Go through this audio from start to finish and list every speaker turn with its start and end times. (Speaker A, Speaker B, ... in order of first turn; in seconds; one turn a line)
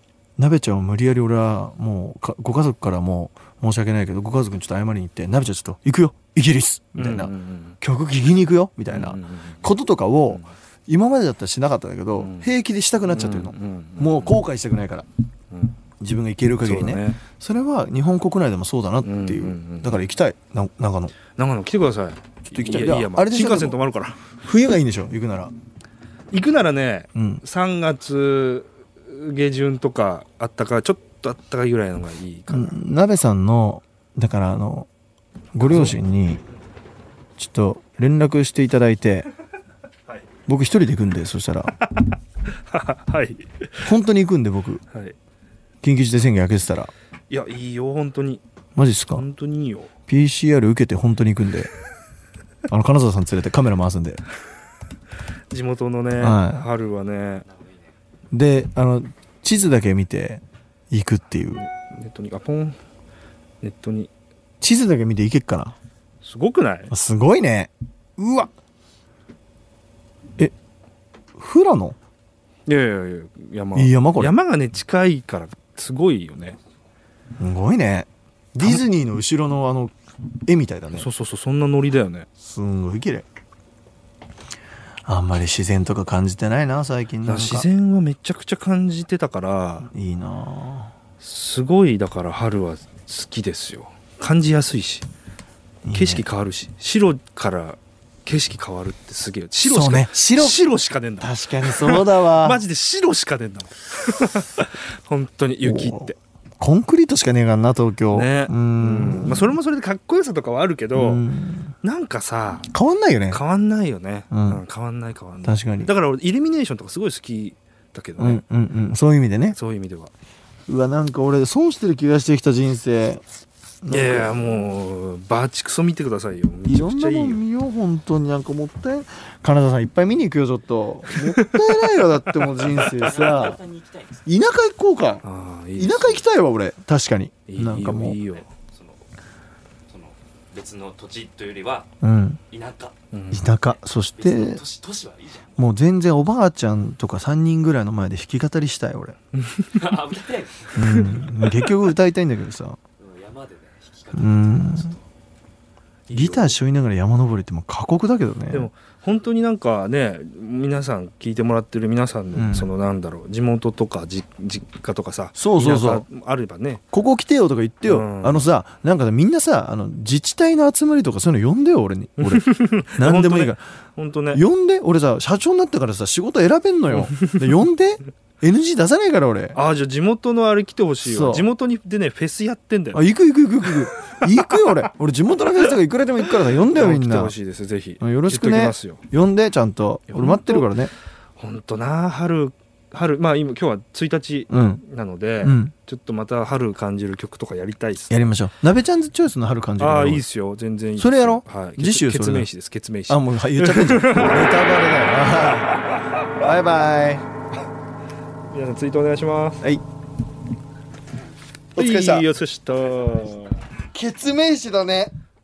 Speaker A: 0.4-15.1
Speaker B: 7.0-7.8
Speaker B: 8.9-9.6
Speaker B: 12.2-12.5
Speaker B: 13.1-14.4
Speaker B: 15.5-15.8
Speaker A: 16.0-21.1
Speaker B: 16.6-17.2
Speaker B: 19.0-20.0
Speaker B: 21.4-24.2
Speaker A: 22.5-23.8
Speaker A: 24.4-25.5
Speaker B: 26.3-32.8
Speaker A: 27.1-27.4
Speaker A: 32.5-34.9
Speaker A: 35.5-36.4
Speaker B: 35.6-36.0
Speaker A: 37.4-39.3
Speaker A: 40.5-41.7
Speaker B: 41.8-43.9
Speaker A: 43.9-44.8
Speaker A: 45.8-46.9
Speaker B: 47.3-48.4
Speaker A: 48.8-49.3
Speaker B: 49.1-49.9
Speaker A: 50.1-51.7
Speaker A: 52.7-54.2
Speaker B: 55.5-57.5
Speaker A: 56.2-56.7
Speaker A: 58.3-61.6
Speaker B: 61.6-62.8
Speaker B: 63.6-64.1
Speaker A: 64.6-65.8
Speaker B: 66.2-66.9
Speaker A: 66.9-68.5
Speaker A: 71.4-72.0
Speaker B: 72.7-76.6
Speaker A: 73.7-74.4
Speaker A: 77.4-79.9
Speaker A: 80.5-81.1
Speaker B: 80.9-82.3
Speaker A: 82.4-83.2
Speaker A: 85.1-87.7
Speaker B: 87.2-89.9
Speaker A: 89.8-90.9
Speaker B: 91.2-95.1
Speaker A: 95.8-96.2
Speaker B: 95.9-106.2
Speaker A: 99.6-100.6
Speaker A: 101.2-102.6
Speaker A: 105.6-109.6
Speaker B: 108.1-111.2
Speaker A: 110.9-111.7
Speaker B: 111.8-112.7
Speaker A: 112.7-113.4
Speaker B: 113.3-118.4
Speaker A: 114.3-114.6
Speaker A: 115.4-115.9
Speaker A: 118.2-119.6
Speaker B: 119.5-120.1
Speaker A: 120.7-123.2
Speaker A: 123.8-124.6
Speaker B: 123.9-127.4
Speaker A: 126.7-133.6
Speaker B: 131.4-132.9
Speaker C: 132.9-134.2
Speaker A: 134.2-135.2
Speaker B: 135.2-136.2
Speaker A: 135.8-138.2
Speaker B: 137.5-138.6
Speaker C: 138.6-138.8
Speaker C: 139.9-141.9
Speaker A: 142.0-142.4
Speaker C: 142.5-142.9
Speaker B: 143.1-143.5
Speaker A: 143.3-144.6
Speaker C: 144.2-145.6
Speaker A: 145.6-149.2
Speaker B: 149.3-149.8
Speaker C: 149.8-150.8
Speaker A: 150.8-152.8
Speaker C: 153.0-155.0
Speaker A: 154.1-155.0
Speaker B: 156.1-156.5
Speaker A: 156.1-158.7
Speaker B: 158.5-166.8
Speaker A: 162.3-162.7
Speaker A: 165.4-166.1
Speaker A: 166.9-173.6
Speaker B: 167.8-168.4
Speaker B: 172.2-174.4
Speaker A: 174.3-179.6
Speaker B: 176.9-177.5
Speaker B: 179.6-183.0
Speaker A: 181.0-181.5
Speaker A: 182.9-187.3
Speaker B: 186.7-189.0
Speaker A: 188.0-190.9
Speaker B: 190.1-190.7
Speaker B: 191.4-198.2
Speaker A: 194.5-194.8
Speaker A: 195.4-195.7
Speaker A: 198.1-200.3
Speaker B: 199.8-204.6
Speaker A: 201.0-202.5
Speaker A: 203.1-205.8
Speaker B: 205.5-206.2
Speaker A: 206.3-207.3
Speaker B: 208.5-209.6
Speaker A: 211.8-212.3
Speaker B: 211.8-213.6
Speaker A: 213.9-215.1